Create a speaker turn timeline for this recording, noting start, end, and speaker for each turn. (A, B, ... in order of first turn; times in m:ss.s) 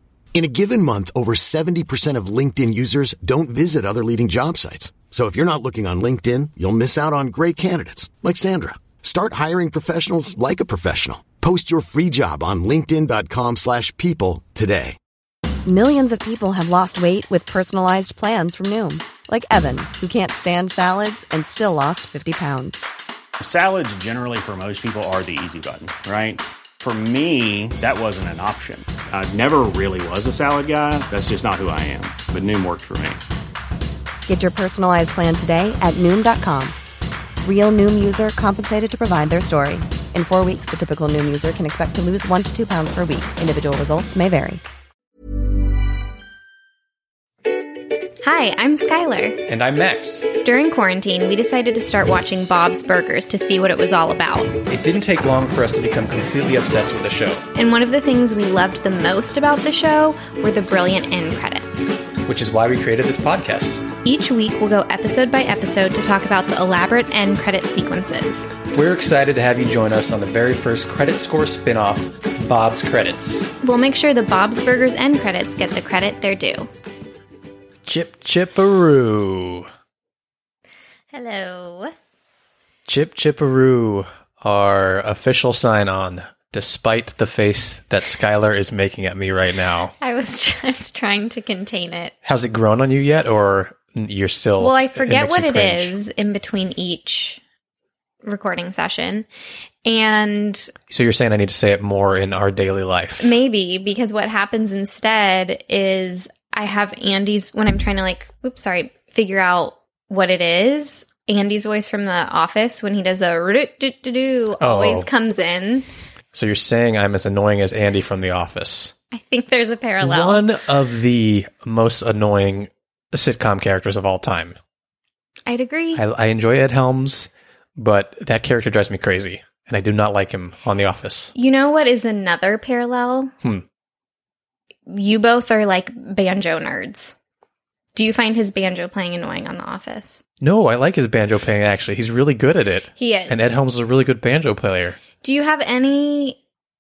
0:00.3-0:15.0 A
0:15.6-0:22.8 B
0:23.4-0:33.2 C
0:34.3-0:36.8 B
0:37.4-0:44.6 B
0:48.2-0:49.4 D
0:49.5-0:50.3 E
0:50.4-0:54.5 D
0:54.7-0:57.4 E
0:57.5-1:02.0 D
1:02.3-1:03.8 E
1:04.0-1:08.5 D
1:08.7-1:13.5 E
1:13.6-1:16.7 D
1:17.9-1:19.7 E
1:21.1-1:21.9 D
1:22.9-1:29.9 E
1:30.0-1:32.2 D
1:32.2-1:35.9 E
1:34.6-1:37.4 D
1:38.2-1:39.3 D
1:39.8-1:40.7 D
1:40.9-1:43.4 E
1:43.2-1:55.9 D
1:54.6-1:55.1 E
1:56.3-1:58.9 E
1:59.1-2:00.5 D
2:00.0-2:04.6 E
2:05.5-2:06.0 D
2:05.9-2:11.3 E
2:11.3-2:13.3 D
2:14.9-2:17.1 D
2:17.9-2:20.2 D
2:20.4-2:25.0 E
2:23.0-2:23.4 D
2:25.2-2:26.4 D